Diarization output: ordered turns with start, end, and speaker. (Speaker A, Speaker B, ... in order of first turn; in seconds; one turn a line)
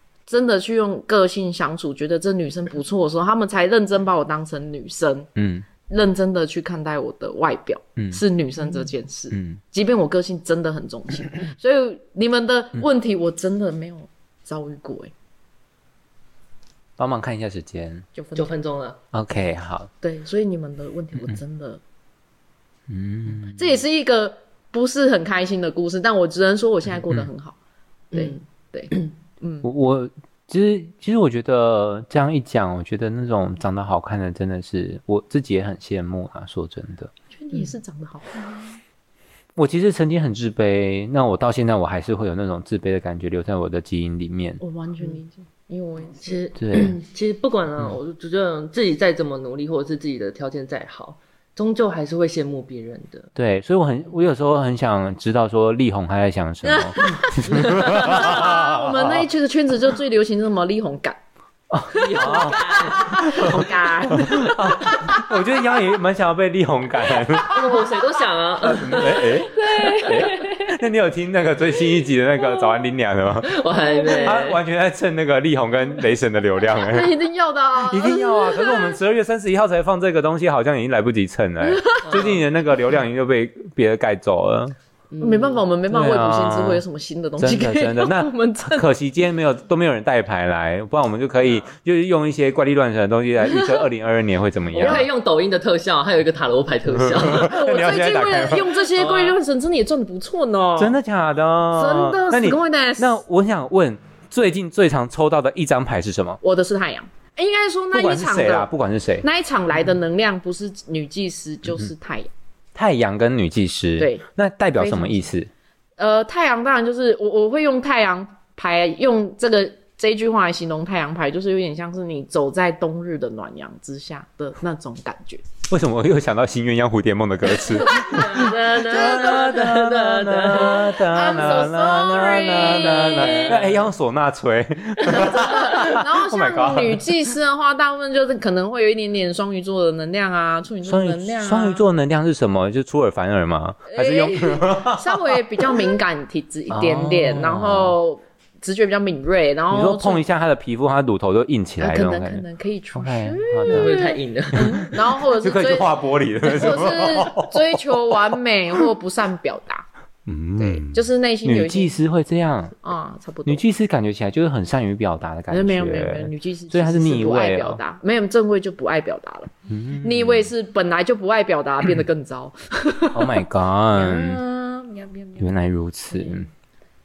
Speaker A: 0.3-5.3
Speaker B: 5.3-5.7
Speaker A: 5.9-15.1
Speaker B: 9.3-9.6
Speaker B: 17.0-18.1
Speaker A: 18.1-18.5
Speaker C: 18.3-19.0
Speaker B: 19.1-19.9
Speaker A: 20.0-21.8
Speaker B: 22.9-23.7
Speaker A: 23.5-27.6
Speaker A: 28.1-29.7
Speaker B: 29.6-37.1
Speaker A: 37.3-38.8
Speaker B: 39.5-44.6
Speaker A: 44.6-46.4
Speaker C: 46.2-53.3
Speaker B: 46.5-47.0
Speaker B: 53.4-59.2
Speaker A: 56.6-61.2
Speaker C: 57.6-58.3
Speaker B: 61.7-67.7
Speaker C: 61.9-63.6
Speaker A: 62.2-65.3
Speaker A: 67.1-68.2
Speaker C: 67.5-69.3
Speaker B: 68.6-73.6
Speaker A: 68.9-70.7
Speaker C: 73.4-74.6
Speaker A: 73.9-74.4
Speaker B: 74.2-77.1
Speaker A: 76.7-79.0
Speaker B: 77.8-84.7
Speaker A: 81.6-82.3
Speaker C: 82.0-82.4
Speaker C: 85.1-85.6
Speaker A: 85.2-88.9
Speaker B: 85.9-86.8
Speaker B: 87.4-95.1
Speaker C: 94.7-97.5
Speaker B: 97.0-98.8
Speaker A: 97.3-101.0
Speaker C: 98.9-99.4
Speaker B: 100.8-106.4
Speaker A: 101.7-103.2
Speaker A: 106.4-108.7
Speaker B: 107.9-109.2
Speaker A: 109.2-112.3
Speaker B: 112.7-115.5
Speaker A: 114.0-114.2
Speaker A: 114.8-115.3
Speaker A: 116.0-125.4
Speaker B: 125.7-137.0
Speaker C: 127.8-131.0
Speaker A: 127.8-129.6
Speaker A: 131.1-133.7
Speaker C: 132.5-133.8
Speaker A: 135.0-141.8
Speaker B: 140.8-145.4
Speaker A: 143.9-150.2
Speaker B: 146.7-148.0
Speaker B: 149.7-154.0
Speaker A: 151.8-159.8
Speaker C: 153.7-154.9
Speaker B: 154.5-158.1
Speaker B: 160.2-162.7
Speaker A: 160.6-161.9
Speaker A: 162.8-163.6
Speaker B: 163.4-167.8
Speaker A: 165.5-173.3
Speaker B: 169.7-170.5
Speaker B: 173.1-174.4
Speaker A: 173.9-175.5
Speaker B: 175.4-176.5
Speaker A: 176.1-176.4